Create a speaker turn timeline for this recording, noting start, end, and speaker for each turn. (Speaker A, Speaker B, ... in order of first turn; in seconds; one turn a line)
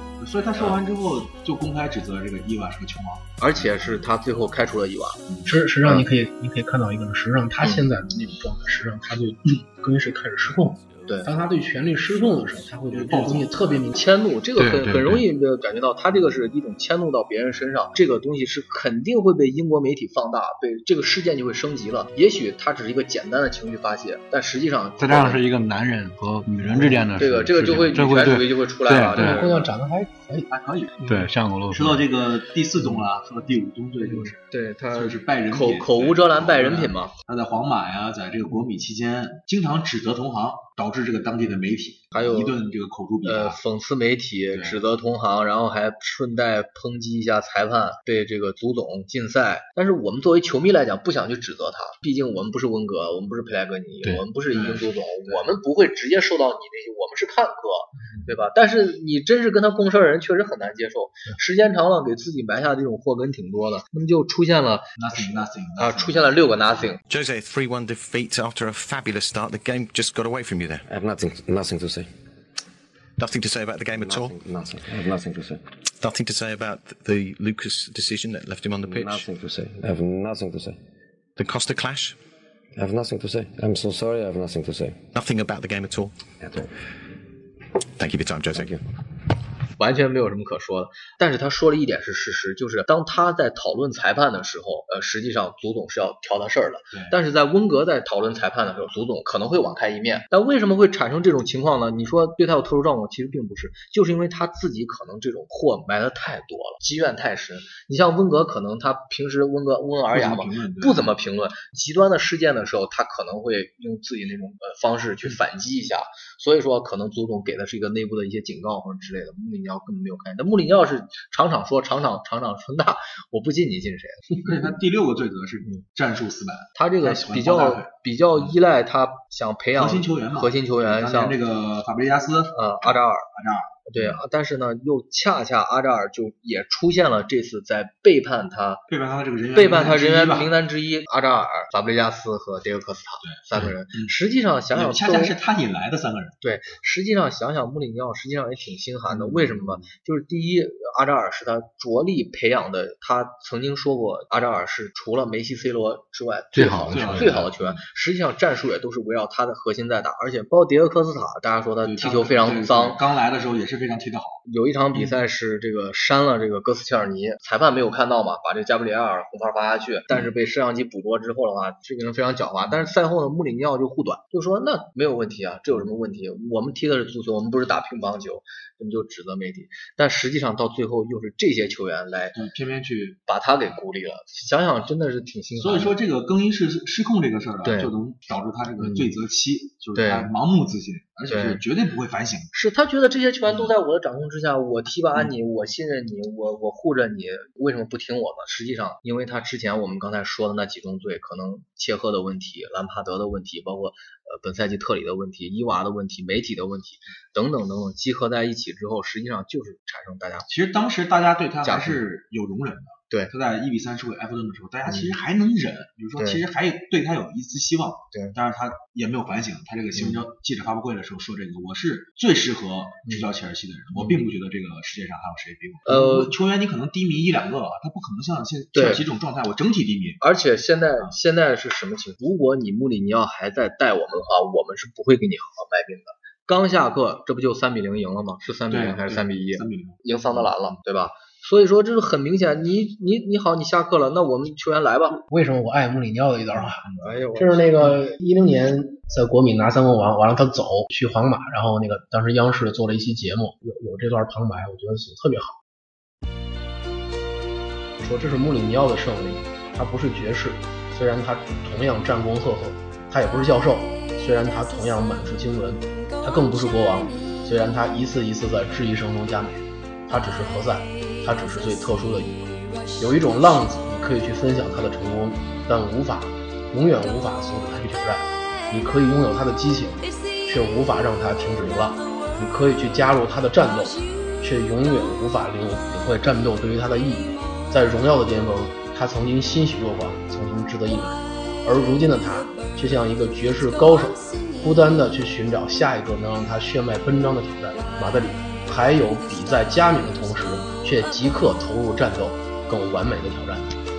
Speaker A: 0.2-4.0
Speaker B: 3.4-5.3
Speaker C: 5.4-14.0
Speaker A: 12.9-13.8
Speaker B: 13.9-25.4
Speaker D: 14.6-15.2
Speaker D: 25.0-29.4
Speaker B: 27.1-29.6
Speaker C: 29.1-30.5
Speaker A: 30.5-31.0
Speaker D: 31.0-32.0
Speaker A: 31.7-43.6
Speaker B: 34.0-37.1
Speaker B: 42.1-42.5
Speaker B: 43.2-67.0
Speaker A: 44.5-44.8
Speaker A: 54.5-55.5
Speaker A: 65.0-67.0
Speaker E: 67.1-70.8
Speaker F: 70.9-72.1
Speaker E: 73.2-74.3
Speaker F: 73.9-75.6
Speaker E: 76.0-79.2
Speaker F: 78.8-80.8
Speaker E: 81.4-82.2
Speaker F: 82.8-85.1
Speaker E: 85.1-86.1
Speaker F: 86.4-86.7
Speaker E: 88.0-88.7
Speaker F: 88.5-88.8
Speaker B: 89.8-124.5
Speaker A: 110.1-111.1
Speaker A: 124.4-128.6
Speaker B: 126.7-131.4
Speaker A: 129.8-134.2
Speaker B: 132.5-133.3
Speaker B: 133.9-138.8
Speaker A: 138.9-140.5
Speaker B: 139.5-145.3
Speaker A: 143.2-144.2
Speaker A: 144.7-146.4
Speaker B: 146.4-163.0
Speaker A: 149.1-149.8
Speaker D: 156.5-157.3
Speaker A: 156.9-157.8
Speaker A: 161.8-164.4
Speaker B: 164.4-182.3
Speaker A: 182.3-183.2
Speaker B: 183.2-185.9
Speaker A: 185.6-192.5
Speaker B: 187.6-187.9
Speaker B: 188.8-189.1
Speaker B: 189.9-190.3
Speaker B: 191.3-191.6
Speaker B: 192.5-210.5
Speaker A: 210.5-230.2
Speaker B: 211.6-212.0
Speaker B: 214.8-215.1
Speaker B: 216.2-216.4
Speaker B: 219.9-220.2
Speaker B: 223.9-224.2
Speaker B: 225.8-226.3
Speaker B: 228.7-229.0
Speaker B: 230.2-245.2
Speaker A: 238.7-240.5
Speaker C: 245.2-255.6
Speaker B: 246.5-248.1
Speaker C: 258.0-272.4
Speaker C: 273.0-303.8